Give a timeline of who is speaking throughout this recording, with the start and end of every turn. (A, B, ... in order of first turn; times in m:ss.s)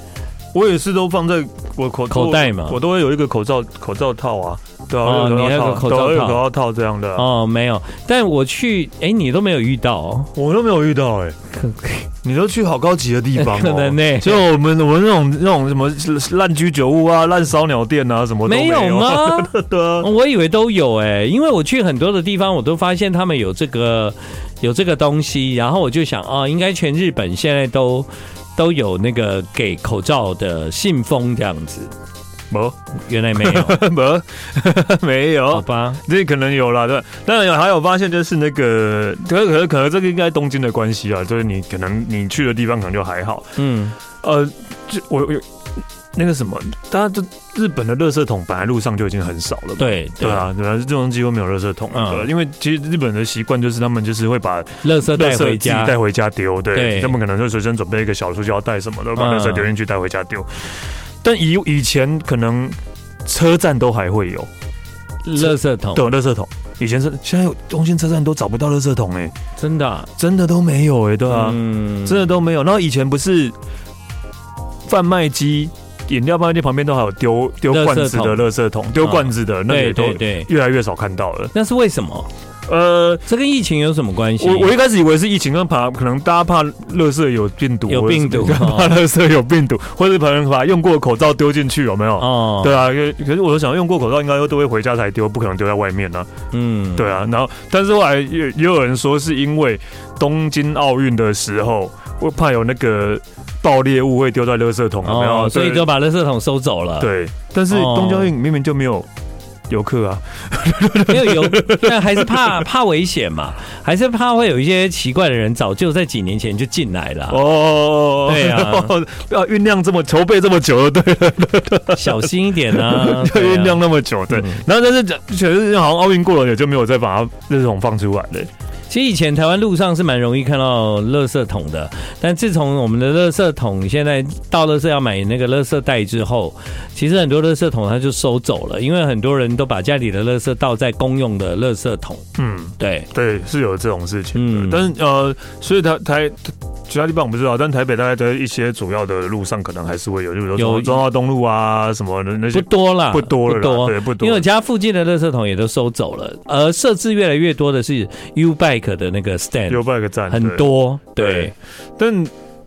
0:00.5-0:07.3 A
0:02.1-0:02.8 B
0:05.0-0:06.4 B
0:07.2-0:10.3 B
0:10.4-0:11.4 A
0:11.6-0:12.1 B
0:12.2-0:20.1 A
0:13.4-0:14.4 B
0:18.5-0:31.9 B
0:32.5-0:32.8 A
0:33.1-0:33.8 B
0:33.4-0:43.6 A
0:35.5-0:36.0 B
0:43.6-0:44.0 B
0:44.2-0:45.5 A
0:46.1-1:04.5 A
0:49.8-0:50.5 B
0:51.9-0:52.3 B
0:54.8-0:56.0 B
0:56.7-0:57.2 B
0:59.2-0:59.7 B
1:05.2-1:06.1 B
1:05.4-1:09.3 A
1:09.6-1:10.1 B
1:10.2-1:13.6 A
1:11.3-1:12.2 B
1:14.9-1:21.5 A
1:17.7-1:18.5 B
1:19.0-1:20.5 B
1:21.5-1:22.3 B
1:22.7-1:23.2 A
1:23.3-1:24.7 B
1:24.4-1:36.3 A
1:27.9-1:29.0 B
1:32.2-1:32.8 B
1:36.5-1:37.2 B
1:37.0-1:45.9 A
1:45.0-1:47.1 B
1:47.0-1:49.1 A
1:47.7-1:48.3 B
1:49.7-1:52.6 A
1:51.1-1:57.4 B
1:57.3-2:08.5 A
1:58.2-1:58.9 B
2:01.9-2:04.6 B
2:08.9-2:22.2 B
2:22.4-2:34.5 A
2:22.8-2:23.1 B
2:24.4-2:24.9 B
2:30.6-2:31.0 B
2:32.5-2:41.5 B
2:39.7-2:42.3 A